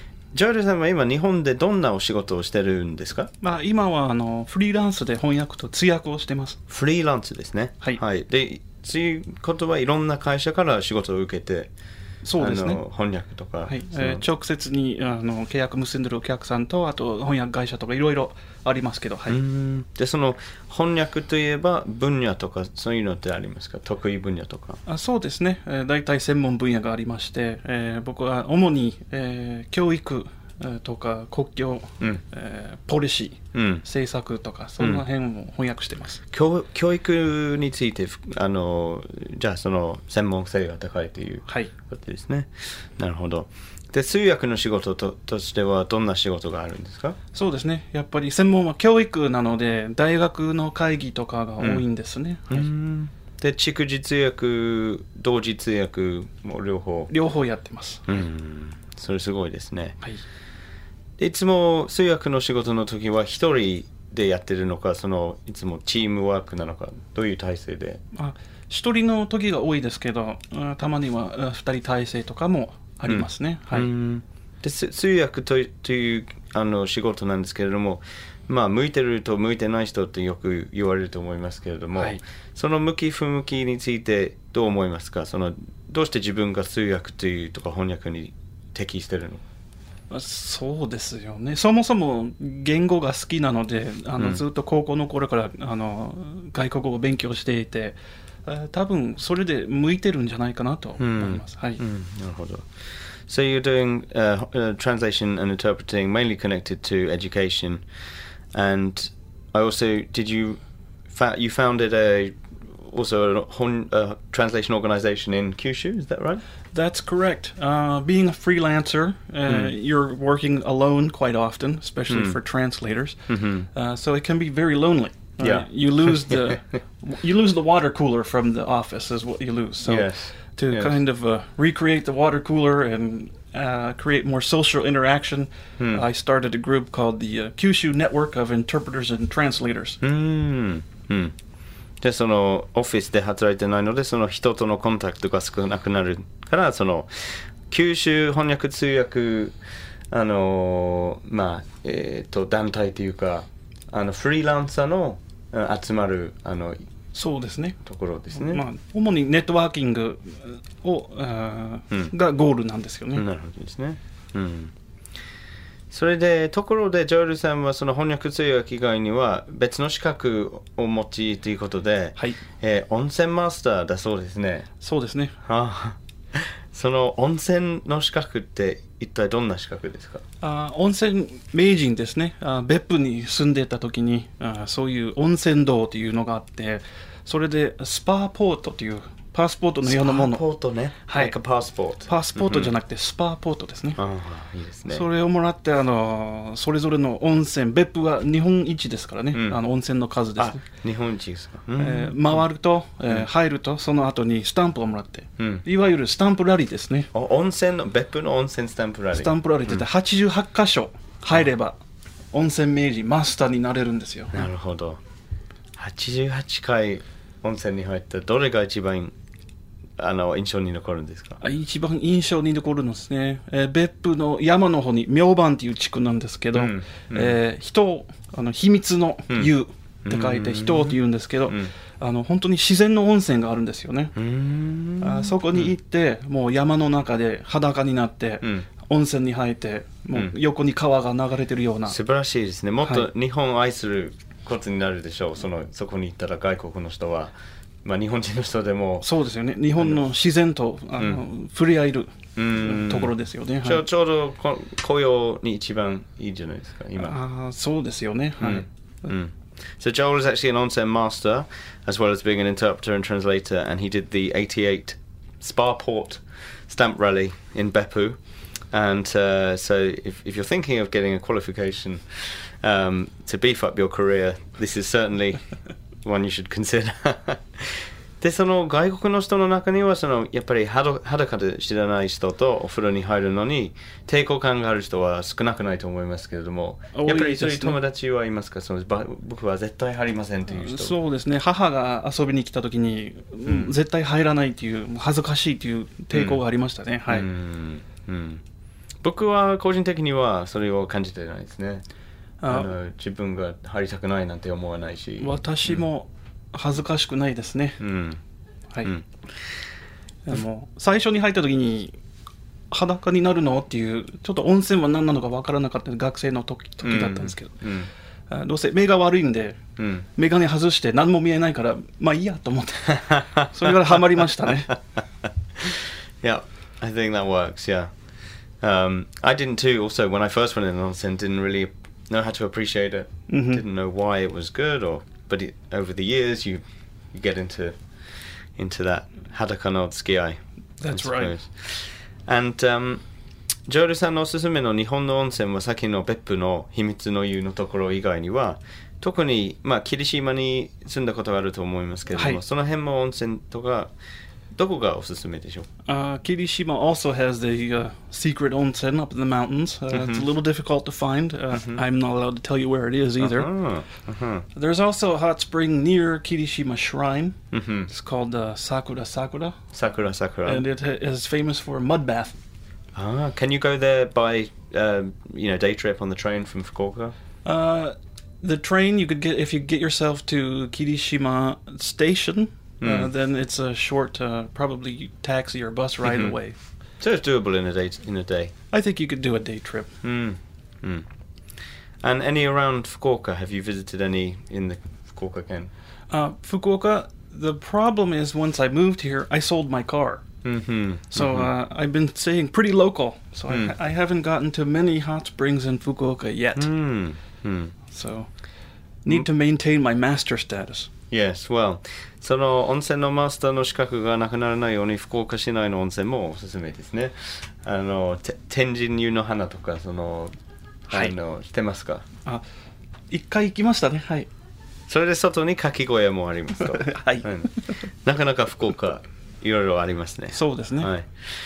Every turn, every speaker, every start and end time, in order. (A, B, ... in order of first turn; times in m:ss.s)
0:00.3-0:03.3 A
0:03.4-0:06.6 B
0:06.7-0:11.7 A
0:12.2-0:12.8 B
0:12.4-0:14.2 A
0:13.7-0:19.4 B
0:19.3-0:24.8 A
0:24.9-0:36.2 B
0:33.5-0:33.8 A
0:34.8-0:35.0 A
0:36.3-0:47.2 A
0:47.3-0:52.7 B
0:52.5-0:57.1 A
0:57.1-0:58.0 B
0:58.1-1:00.0 A
1:01.2-1:08.0 A
1:08.1-1:13.9 B
1:13.1-1:29.4 A
1:30.1-1:41.8 B
1:41.0-1:42.7 A
1:43.3-1:47.8 A
1:48.5-1:56.4 A
1:56.7-2:03.2 B
1:59.5-1:59.7 A
2:02.1-2:02.4 A
2:03.3-2:03.7 A
2:03.7-2:20.0 B
2:05.4-2:06.6 A
2:09.8-2:11.0 A
2:15.8-2:16.1 A
2:20.0-2:21.4 A
2:22.0-2:29.5 A
2:30.1-2:36.8 A
2:37.1-2:37.8 B
2:37.8-2:38.6 A
2:38.3-2:43.2 B
2:43.2-2:44.7 A
2:45.9-2:54.7 A
2:54.8-2:55.4 B
2:55.4-2:56.0 A
2:56.7-3:00.2 A
3:00.4-3:10.4 B
3:09.8-3:12.7 A
3:11.0-3:11.4 B
3:12.0-3:14.0 B
3:14.0-3:15.1 A
3:14.9-3:20.6 B
3:19.3-3:19.6 A
3:20.4-3:22.4 A
3:21.8-3:27.1 B
3:25.4-3:25.6 A
3:27.1-3:29.8 A
3:29.1-3:31.8 B
3:32.3-3:34.5 B
3:34.3-3:35.0 A
3:35.8-3:39.1 A
3:40.0-3:41.4 A
3:41.4-3:54.1 B
3:46.5-3:47.4 A
3:50.1-3:51.7 A
3:54.2-3:55.7 A
3:55.0-4:02.0 B
3:58.4-3:58.7 A
4:01.9-4:09.1 A
4:09.0-4:13.8 B
4:09.8-4:10.0 A
4:12.4-4:17.2 A
4:17.0-4:18.7 B
4:18.4-4:28.2 A
4:28.7-4:35.4 A
4:36.0-4:50.9 A
4:46.9-4:47.8 B
4:50.5-4:57.3 B
4:53.5-4:53.7 A
4:56.1-4:56.4 A
4:57.1-4:58.4 A
4:59.0-5:01.8 A
5:02.4-5:02.7 B
5:02.5-5:05.9 A
5:05.2-5:07.8 B
5:07.8-5:08.2 A
5:10.3-5:12.0 B
5:12.7-5:17.6 B
5:16.8-5:17.9 A
5:18.3-5:19.6 B
5:19.8-5:20.1 A
5:20.2-5:24.8 B
5:25.6-5:27.9 A
5:28.6-5:37.8 A
5:33.3-5:33.6 B
5:38.6-5:43.0 A
5:40.8-5:41.4 B
5:43.7-5:53.9 A
5:52.2-5:52.4 B
5:54.6-5:55.7 A
5:55.9-6:03.5 B
5:59.9-6:00.3 A
6:01.5-6:01.8 A
6:03.2-6:04.5 A
6:04.6-6:07.4 B
6:07.5-6:07.9 A
6:07.9-6:09.6 B
6:09.7-6:10.6 A
6:10.5-6:12.4 B
6:13.0-6:17.2 A
6:17.4-6:26.6 B
6:22.8-6:23.1 A
6:26.0-6:26.3 A
6:27.0-6:28.5 A
6:28.7-6:29.9 B
6:30.0-6:31.1 A
6:32.0-6:35.7 A
6:36.1-6:40.2 B
6:40.4-6:41.5 A
6:41.1-6:46.7 B
6:43.5-6:43.7 A
6:46.6-6:47.7 A
6:47.9-6:48.3 B
6:49.0-6:50.9 B
6:51.1-7:00.3 A
7:00.9-7:02.0 A
7:03.1-7:04.3 B
7:04.9-7:11.1 A
7:06.7-7:07.2 B
7:10.3-7:10.9 B